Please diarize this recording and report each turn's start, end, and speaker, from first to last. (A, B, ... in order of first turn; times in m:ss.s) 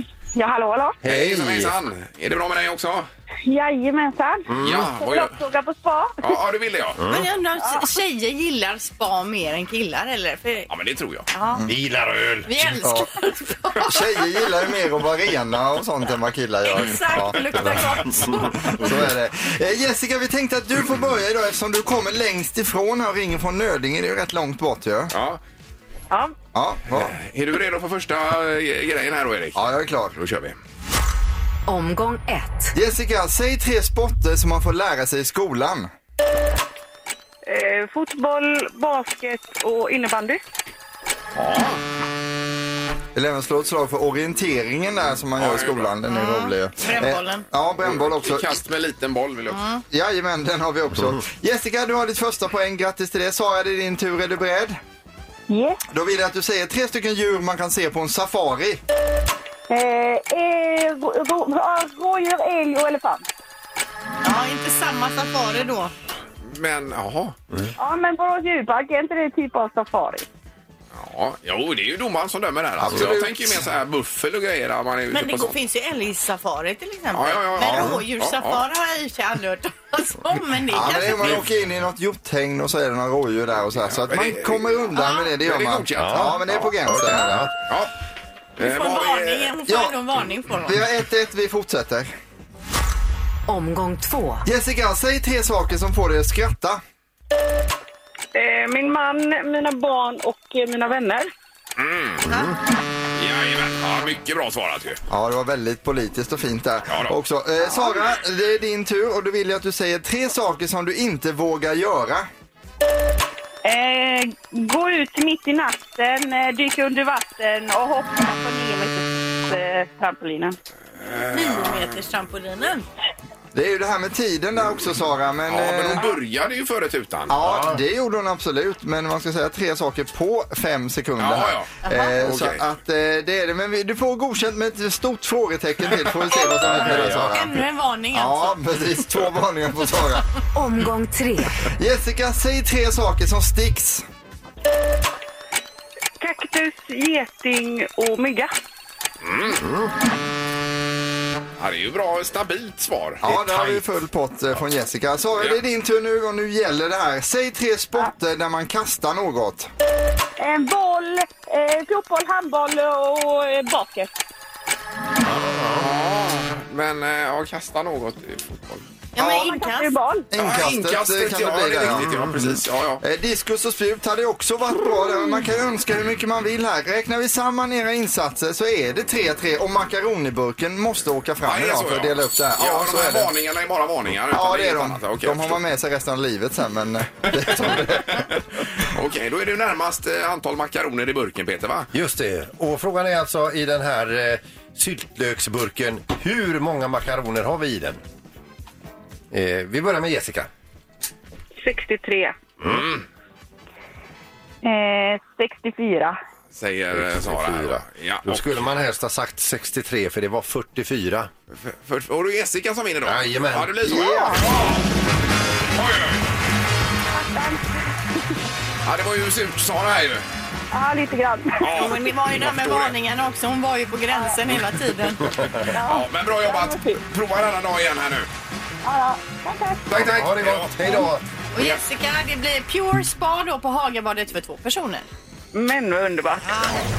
0:00.3-0:01.0 A
0:01.0-0:01.7 B
0:01.0-0:03.1 C
0:03.4-0:06.3 A
0:04.5-0:04.9 B
0:04.6-0:05.4 C
0:06.2-0:07.0 C
0:07.0-0:07.3 B
0:07.1-0:10.7 D
0:07.6-0:07.9 A
0:10.7-0:11.3 C
0:11.3-0:11.6 D
0:11.7-0:12.8 B
0:12.4-0:14.0 D
0:12.8-0:13.1 E
0:13.8-0:17.8 E
0:16.6-0:19.0 D
0:17.9-0:18.3 B
0:18.6-0:25.1 E
0:25.1-0:25.4 C
0:26.5-0:27.1 E
0:26.9-0:30.6 C
0:29.5-0:30.2 E
0:31.7-0:32.7 F
0:32.7-0:35.9 E
0:37.4-0:40.4 A
0:41.3-0:41.8 C
0:43.1-0:48.6 E
0:45.4-0:45.9 C
0:46.1-0:47.4 D
0:47.8-0:49.6 C
0:49.5-0:49.8 D
0:49.9-0:54.8 E
0:55.5-0:55.8 A
0:55.9-0:58.8 E
0:59.7-1:03.2 A
1:04.2-1:05.9 D
1:06.4-1:07.4 C
1:07.8-1:10.3 A
1:10.9-1:15.5 C
1:12.8-1:13.6 E
1:15.1-1:21.4 D
1:17.1-1:18.6 C
1:20.7-1:27.3 E
1:23.8-1:24.8 C
1:24.9-1:25.3 D
1:25.4-1:26.7 C
1:26.0-1:27.5 B
1:27.6-1:27.9 C
1:28.6-1:29.5 C
1:28.6-1:30.8 D
1:29.7-1:30.0 E
1:30.6-1:32.1 E
1:33.5-1:34.4 F
1:34.4-1:36.8 E
1:38.3-1:41.3 A
1:41.8-1:42.2 C
1:43.2-1:45.0 C
1:45.1-1:52.3 E
1:46.9-1:47.1 C
1:53.6-2:00.6 A
2:01.0-2:01.9 C
2:01.3-2:02.8 D
2:03.5-2:06.0 E
2:05.5-2:07.4 C
2:07.3-2:17.5 E
2:07.4-2:07.8 B
2:11.2-2:11.7 C
2:11.8-2:12.1 D
2:12.2-2:12.6 C
2:16.3-2:18.6 D
2:16.6-2:17.5 B
2:18.1-2:20.3 E
2:20.5-2:21.7 F
2:21.7-2:24.0 E
2:26.2-2:28.5 A
2:29.2-2:29.6 C
2:29.6-2:29.9 B
2:31.6-2:33.2 C
2:33.2-2:39.7 E
2:33.2-2:33.8 B
2:40.4-2:44.1 A
2:45.2-2:45.9 B
2:45.8-2:48.8 C
2:49.1-2:49.9 D
2:49.2-2:50.3 A
2:50.3-2:52.1 E
2:50.3-2:53.0 C
2:51.8-2:52.5 B
2:53.0-3:03.3 E
3:01.4-3:05.6 C
3:04.3-3:08.3 E
3:07.6-3:11.9 C
3:11.9-3:18.0 B
3:19.3-3:20.5 B
3:21.6-3:22.3 A
3:22.6-3:23.0 C
3:24.6-3:26.2 A
3:26.5-3:28.6 C
3:26.9-3:31.3 B
3:31.5-3:34.8 C
3:33.0-3:34.0 B
3:33.9-3:34.5 E
3:35.7-3:36.2 C
3:37.1-3:37.7 A
3:38.8-3:40.2 C
3:40.7-3:41.9 A
3:41.6-3:42.9 C
3:41.7-3:45.3 D
3:45.7-3:47.0 A
3:45.7-3:48.3 C
3:48.8-3:49.9 A
3:49.9-3:51.0 C
3:49.9-3:51.2 B
3:51.5-3:55.1 D
3:55.5-3:56.7 A
3:56.4-3:56.9 D